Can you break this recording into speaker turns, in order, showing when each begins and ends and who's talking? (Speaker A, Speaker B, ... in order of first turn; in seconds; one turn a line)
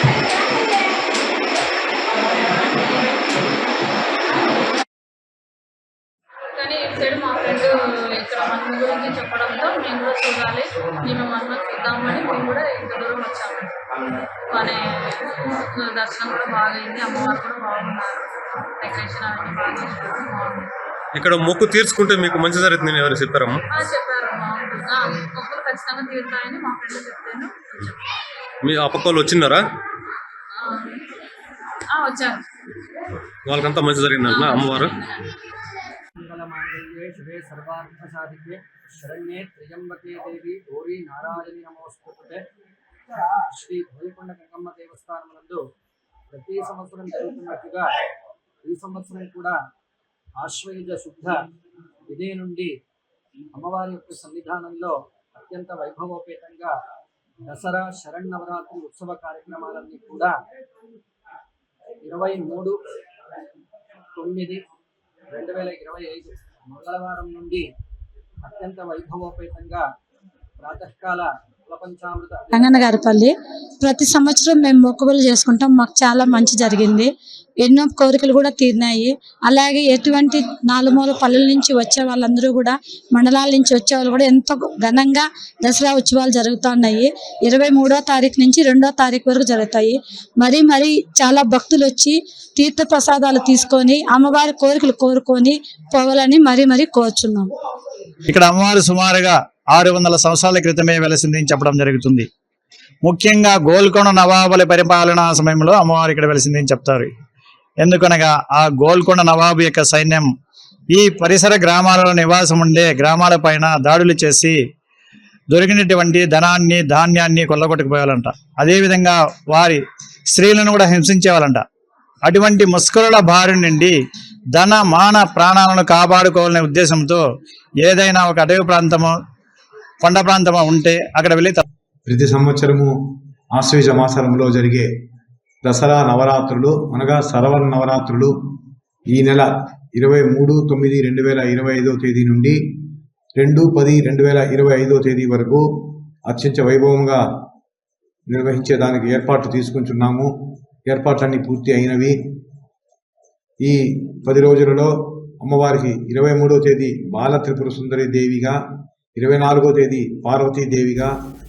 Speaker A: 6.5-13.7
Speaker A: 14.5-18.3
Speaker A: 18.8-20.7
Speaker B: 21.1-23.6
Speaker A: 23.7-28.0
Speaker B: 28.6-29.6
Speaker A: 30.6-31.0
Speaker A: 31.9-32.4
Speaker B: 33.5-35.0
Speaker A: 34.2-35.3
Speaker C: 36.2-42.4
Speaker C: 43.5-45.6
Speaker C: 46.3-47.9
Speaker C: 48.6-49.6
Speaker C: 50.4-51.4
Speaker C: 52.1-52.7
Speaker C: 53.5-56.7
Speaker C: 57.5-60.3
Speaker C: 62.0-62.8
Speaker C: 64.2-64.6
Speaker C: 65.3-67.6
Speaker C: 68.4-69.8
Speaker C: 70.6-72.7
Speaker D: 72.5-97.5
Speaker E: 98.3-102.3
Speaker E: 103.0-107.1
Speaker E: 107.8-110.3
Speaker E: 110.9-114.5
Speaker E: 115.5-119.8
Speaker E: 120.3-121.6
Speaker E: 122.3-124.0
Speaker E: 124.5-127.2
Speaker E: 127.8-129.1
Speaker E: 130.0-131.6
Speaker F: 132.1-132.9
Speaker F: 133.5-134.9
Speaker F: 135.6-138.3
Speaker F: 139.1-142.6
Speaker F: 143.3-145.7
Speaker F: 146.3-147.2
Speaker F: 148.3-150.3
Speaker F: 150.9-152.2
Speaker F: 153.6-158.6
Speaker F: 159.2-161.1